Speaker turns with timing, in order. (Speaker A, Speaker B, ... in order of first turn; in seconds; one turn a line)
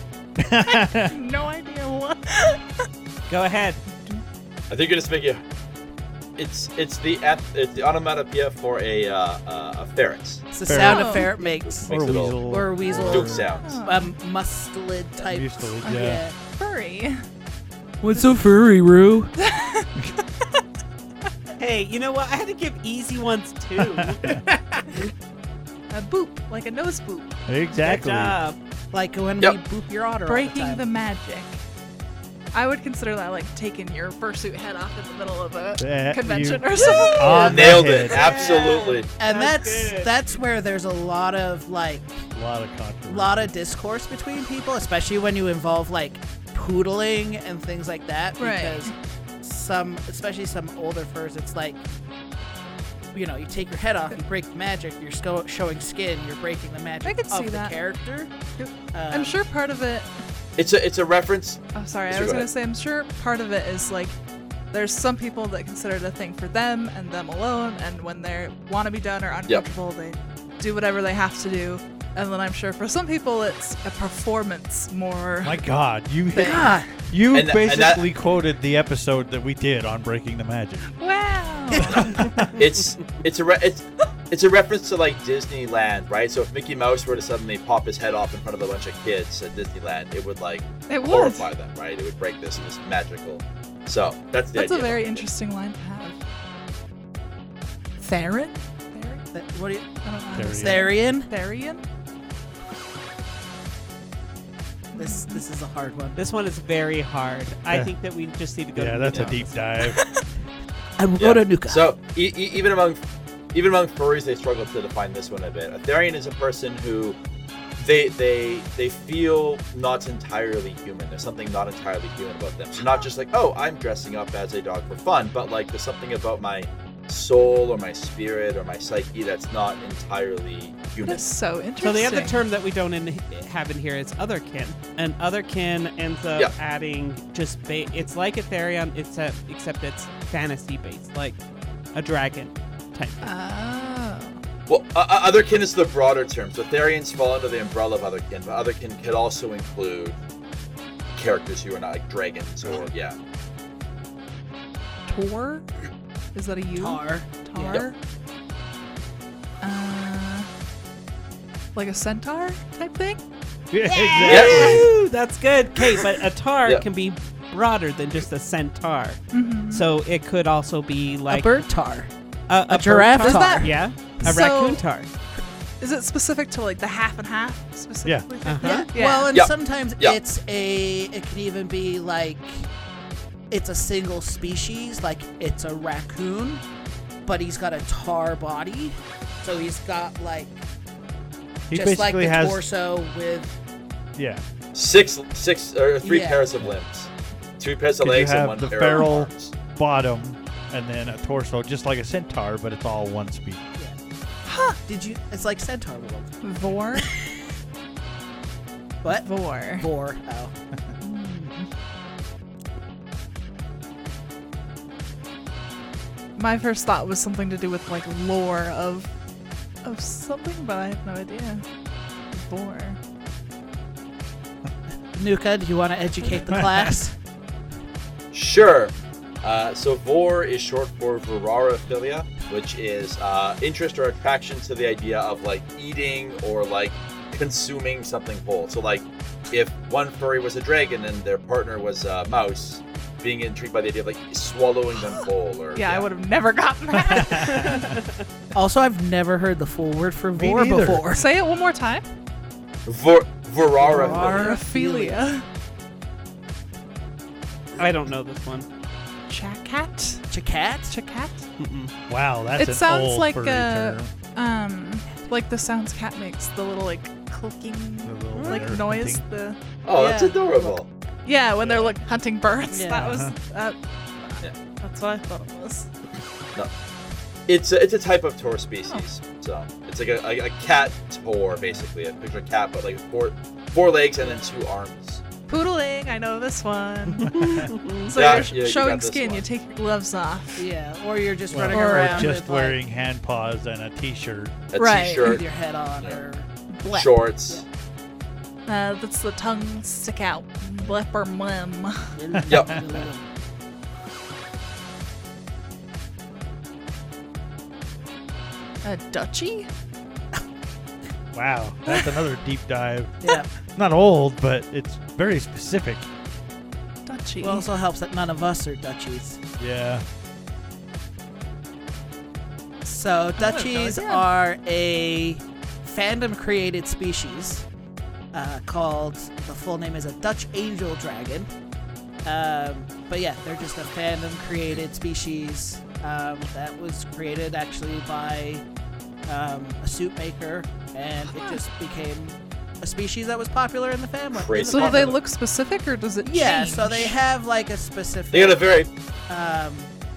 Speaker A: 0.4-1.1
Speaker B: 0.6-2.6
Speaker C: 3.3-3.8
Speaker B: 3.9-4.2
Speaker D: 4.7-5.4
Speaker D: 6.4-10.4
Speaker E: 10.5-16.4
Speaker A: 10.6-11.2
Speaker B: 10.8-11.6
Speaker D: 11.6-13.8
Speaker A: 11.9-13.4
Speaker B: 13.5-14.1
Speaker A: 15.3-16.2
Speaker B: 16.4-17.2
Speaker E: 18.0-19.3
Speaker B: 19.4-19.9
Speaker C: 21.6-24.4
Speaker A: 23.8-24.4
Speaker B: 25.9-27.4
Speaker A: 27.5-28.4
Speaker C: 27.8-28.6
Speaker E: 28.9-30.8
Speaker B: 30.3-31.6
Speaker B: 32.5-38.8
Speaker A: 35.8-38.3
Speaker C: 36.9-37.3
Speaker D: 37.4-39.1
Speaker C: 38.2-40.1
Speaker E: 39.2-42.3
Speaker A: 42.3-43.6
Speaker E: 43.1-51.8
Speaker B: 48.4-48.9
Speaker E: 53.1-58.3
Speaker B: 57.0-57.8
Speaker B: 58.6-60.2
Speaker E: 58.9-59.4
Speaker D: 60.6-62.5
Speaker B: 61.7-64.2
Speaker B: 64.7-75.6
Speaker A: 75.4-80.9
Speaker E: 76.4-76.9
Speaker D: 77.3-78.1
Speaker B: 80.9-82.0
Speaker A: 81.7-82.6
Speaker D: 82.5-95.3
Speaker B: 90.9-91.5
Speaker B: 94.5-96.2
Speaker B: 98.0-99.2
Speaker E: 99.3-99.9
Speaker B: 100.0-101.8
Speaker A: 100.3-100.8
Speaker E: 100.6-101.3
Speaker B: 104.9-105.4
Speaker E: 105.0-106.2
Speaker C: 106.2-109.6
Speaker A: 108.7-110.0
Speaker B: 109.8-110.2
Speaker E: 111.0-111.8
Speaker D: 111.2-113.0
Speaker D: 113.5-117.2
Speaker D: 117.8-131.3
Speaker B: 131.0-132.4
Speaker C: 131.8-141.4
Speaker C: 141.9-143.3
Speaker B: 143.2-144.4
Speaker D: 144.7-150.2
Speaker D: 151.2-153.2
Speaker B: 155.1-155.7
Speaker B: 156.3-157.9
Speaker E: 156.7-157.8
Speaker B: 159.6-160.5
Speaker B: 161.7-163.2
Speaker A: 163.7-164.9
Speaker C: 163.9-171.7
Speaker D: 164.3-164.8
Speaker B: 169.3-169.9
Speaker E: 171.3-172.1
Speaker C: 172.5-175.1
Speaker E: 172.7-174.4
Speaker B: 173.2-173.7
Speaker B: 174.2-174.8
Speaker B: 175.8-179.3
Speaker C: 178.4-178.9
Speaker E: 178.6-182.7
Speaker D: 179.3-180.2
Speaker E: 183.5-186.6
Speaker E: 187.2-190.7
Speaker A: 191.7-192.6
Speaker E: 191.7-193.6
Speaker A: 194.2-194.4
Speaker D: 194.7-199.5
Speaker E: 196.0-196.4
Speaker A: 198.0-203.6
Speaker B: 198.7-199.1
Speaker B: 204.4-204.8
Speaker E: 204.8-206.4
Speaker B: 206.4-207.1
Speaker B: 209.1-209.9
Speaker E: 209.8-210.5
Speaker B: 211.0-211.7
Speaker B: 216.4-219.1
Speaker B: 219.8-221.6
Speaker B: 222.3-223.0
Speaker E: 225.2-227.2
Speaker B: 226.2-226.6
Speaker A: 226.5-226.9
Speaker D: 228.3-246.1
Speaker B: 245.0-247.8
Speaker A: 247.0-247.9
Speaker C: 247.4-248.1
Speaker E: 248.5-251.3
Speaker A: 250.3-251.0
Speaker B: 251.1-252.1
Speaker D: 252.9-254.5
Speaker E: 253.8-255.2
Speaker B: 253.9-255.4
Speaker A: 254.0-254.4
Speaker C: 257.8-258.7
Speaker B: 259.3-260.3
Speaker E: 260.3-260.9
Speaker B: 260.9-261.4
Speaker C: 261.6-261.9
Speaker A: 262.1-264.1
Speaker B: 262.6-269.6
Speaker A: 268.0-269.2
Speaker C: 268.3-268.7
Speaker D: 269.9-270.9
Speaker E: 269.9-270.8
Speaker B: 271.2-275.9
Speaker D: 271.6-271.9
Speaker E: 272.7-273.2
Speaker A: 273.1-273.4
Speaker D: 277.5-285.2
Speaker A: 281.5-281.9
Speaker E: 284.2-284.5
Speaker B: 285.5-287.4
Speaker C: 287.2-288.1
Speaker A: 287.4-287.7
Speaker B: 288.1-290.7
Speaker D: 288.1-289.5
Speaker E: 290.6-292.8
Speaker A: 291.5-294.6
Speaker B: 291.7-292.4
Speaker D: 294.7-295.4
Speaker B: 294.8-295.4
Speaker E: 295.2-296.5
Speaker B: 296.7-297.1
Speaker D: 296.9-297.6
Speaker B: 298.7-302.4
Speaker E: 302.1-303.3
Speaker D: 302.5-302.7
Speaker B: 308.8-309.7
Speaker A: 311.3-313.1
Speaker E: 313.2-313.5
Speaker A: 313.7-316.1
Speaker B: 317.1-317.7
Speaker E: 317.4-319.4
Speaker A: 319.6-320.0
Speaker E: 322.8-327.6
Speaker B: 323.4-324.3
Speaker E: 328.3-331.5
Speaker E: 332.2-338.6
Speaker E: 339.3-345.2
Speaker B: 341.2-341.6
Speaker D: 344.3-345.2
Speaker B: 344.6-347.2
Speaker E: 346.2-348.6
Speaker D: 348.3-348.9
Speaker E: 349.3-349.9